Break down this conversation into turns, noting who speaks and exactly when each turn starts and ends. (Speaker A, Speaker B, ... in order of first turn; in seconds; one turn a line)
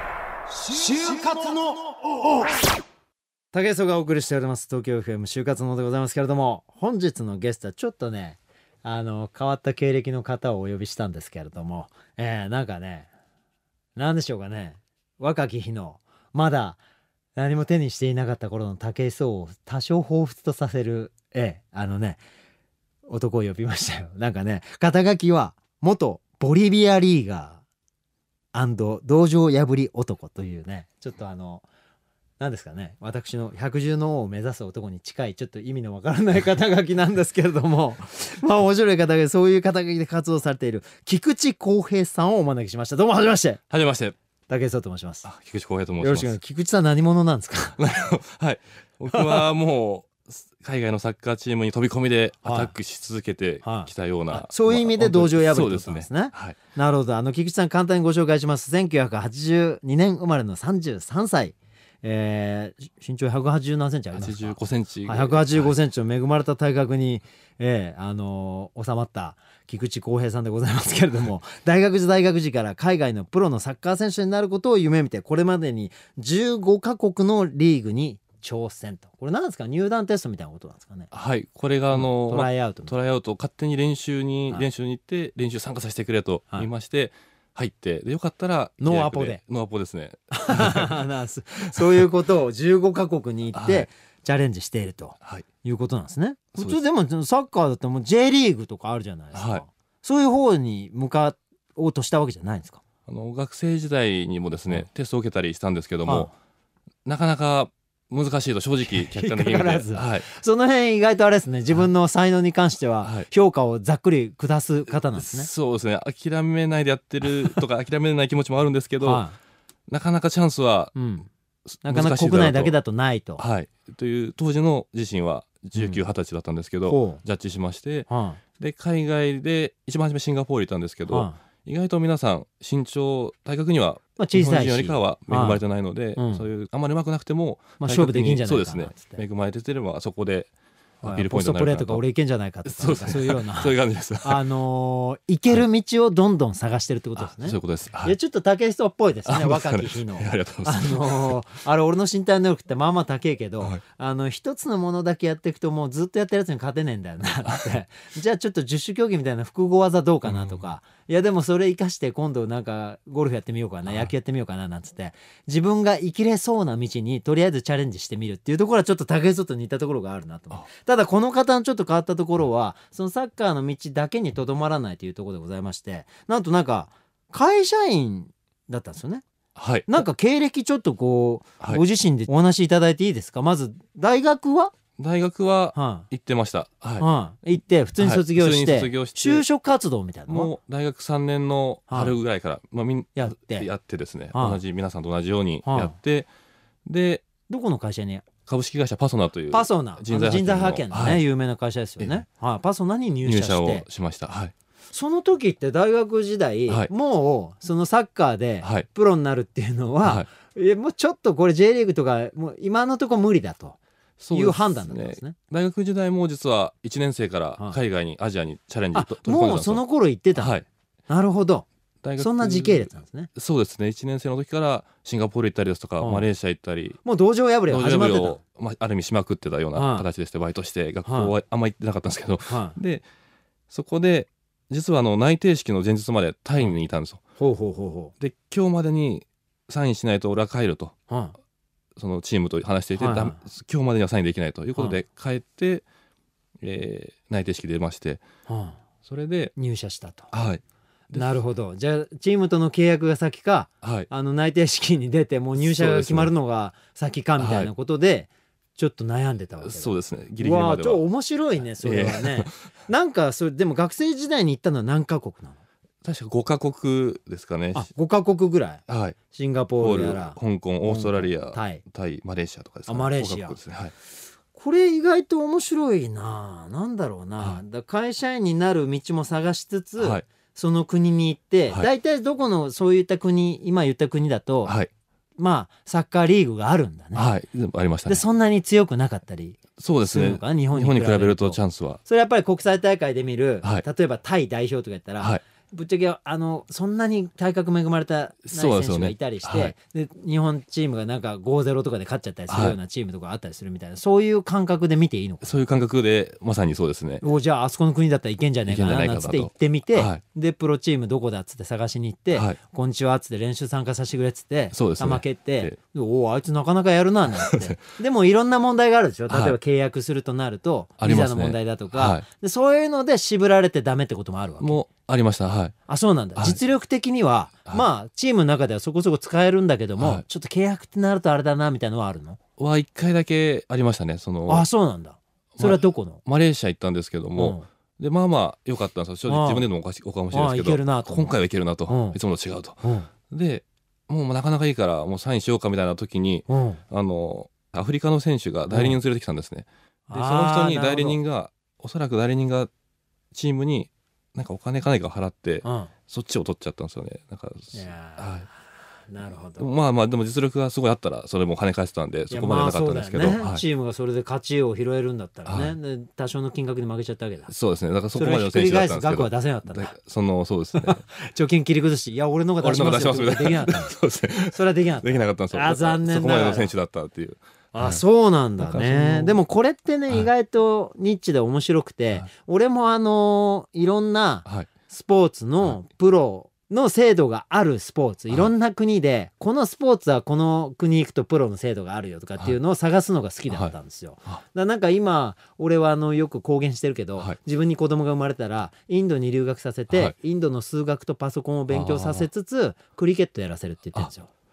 Speaker A: 0.6-2.5
Speaker A: 3.5-13.1
Speaker A: 14.0-16.8
Speaker A: 17.4-22.2
Speaker A: 23.1-27.6
Speaker A: 28.5-31.6
Speaker A: 32.4-43.6
Speaker B: 43.7-44.1
Speaker A: 44.5-45.3
Speaker B: 45.2-46.3
Speaker A: 46.0-47.8
Speaker B: 47.8-56.6
Speaker A: 49.1-49.5
Speaker A: 52.4-52.7
Speaker A: 53.6-81.1
Speaker B: 64.1-65.8
Speaker B: 81.1-90.9
Speaker A: 81.9-82.9
Speaker A: 88.8-89.4
Speaker A: 90.3-102.8
Speaker B: 91.7-92.0
Speaker B: 93.5-93.9
Speaker B: 96.5-96.8
Speaker B: 99.3-99.6
Speaker B: 103.1-106.3
Speaker A: 106.1-106.3
Speaker B: 107.0-110.3
Speaker A: 108.8-115.5
Speaker B: 113.0-113.3
Speaker B: 115.2-119.2
Speaker A: 119.0-119.4
Speaker B: 119.9-121.0
Speaker A: 121.0-121.3
Speaker B: 121.7-122.8
Speaker A: 121.8-123.4
Speaker B: 123.4-140.5
Speaker A: 126.9-127.2
Speaker A: 128.1-128.4
Speaker A: 131.1-131.4
Speaker A: 134.2-135.6
Speaker A: 136.2-136.5
Speaker A: 137.8-139.2
Speaker A: 141.0-179.2
Speaker B: 141.0-142.0
Speaker B: 142.7-144.4
Speaker B: 147.2-148.2
Speaker B: 149.3-151.4
Speaker B: 160.3-160.6
Speaker B: 163.9-164.1
Speaker B: 179.6-180.0
Speaker A: 179.9-184.7
Speaker B: 185.0-187.1
Speaker A: 185.7-186.1
Speaker A: 187.0-190.5
Speaker B: 188.0-189.4
Speaker B: 190.3-196.3
Speaker A: 191.9-192.2
Speaker A: 193.2-193.7
Speaker A: 194.3-194.6
Speaker A: 195.7-195.9
Speaker B: 196.8-197.3
Speaker A: 197.5-198.3
Speaker B: 198.5-201.2
Speaker A: 199.5-203.9
Speaker B: 203.2-204.5
Speaker A: 204.9-213.8
Speaker B: 214.2-219.8
Speaker A: 214.3-215.4
Speaker A: 218.9-220.6
Speaker B: 220.3-220.7
Speaker A: 221.1-221.7
Speaker B: 222.0-227.0
Speaker A: 222.2-223.3
Speaker A: 226.0-226.3
Speaker A: 227.1-228.4
Speaker B: 227.7-233.1
Speaker A: 229.7-230.1
Speaker A: 231.1-231.3
Speaker A: 232.5-232.8
Speaker B: 233.7-237.2
Speaker A: 237.4-238.1
Speaker B: 238.2-240.9
Speaker A: 241.1-241.4
Speaker B: 242.0-245.8
Speaker A: 243.0-243.4
Speaker B: 246.6-248.2
Speaker A: 248.5-248.8
Speaker B: 249.1-249.5
Speaker A: 249.6-250.3
Speaker B: 250.3-251.3
Speaker A: 251.1-265.6
Speaker B: 253.8-254.1
Speaker B: 255.6-256.3
Speaker B: 257.4-257.7
Speaker B: 259.6-261.0
Speaker B: 261.8-262.5
Speaker B: 266.0-267.9
Speaker A: 267.7-271.8
Speaker B: 268.9-269.2
Speaker B: 269.8-273.9
Speaker A: 272.9-273.6
Speaker A: 274.5-284.7
Speaker B: 280.0-280.2
Speaker B: 284.6-284.9
Speaker A: 285.4-287.3
Speaker B: 287.1-288.2
Speaker A: 288.1-305.6
Speaker B: 289.8-292.0
Speaker B: 298.5-299.7
Speaker B: 302.5-302.8
Speaker B: 305.4-307.2
Speaker A: 307.2-324.8
Speaker B: 308.7-310.2
Speaker B: 314.7-315.8
Speaker B: 317.4-317.8
Speaker B: 319.3-319.6
Speaker B: 321.0-322.2
Speaker B: 324.6-325.7
Speaker A: 325.9-332.4
Speaker B: 330.0-330.2
Speaker B: 332.6-334.7
Speaker A: 334.5-336.2
Speaker B: 335.6-352.7
Speaker A: 337.4-337.7
Speaker A: 339.3-339.7
Speaker A: 340.3-341.3
Speaker A: 341.9-342.2
Speaker A: 342.8-343.1
Speaker A: 346.5-346.8
Speaker A: 348.7-349.0
Speaker A: 350.1-351.2
Speaker B: 353.3-358.5
Speaker A: 355.6-355.9
Speaker A: 357.7-358.5
Speaker A: 359.1-359.7
Speaker B: 359.6-363.6
Speaker A: 362.3-367.5
Speaker B: 365.5-365.8
Speaker B: 367.5-371.0
Speaker A: 368.1-369.9
Speaker A: 370.8-373.9
Speaker B: 372.6-378.0
Speaker A: 374.5-376.7
Speaker A: 377.7-404.3
Speaker B: 378.6-379.4
Speaker B: 384.4-384.7
Speaker B: 401.7-402.3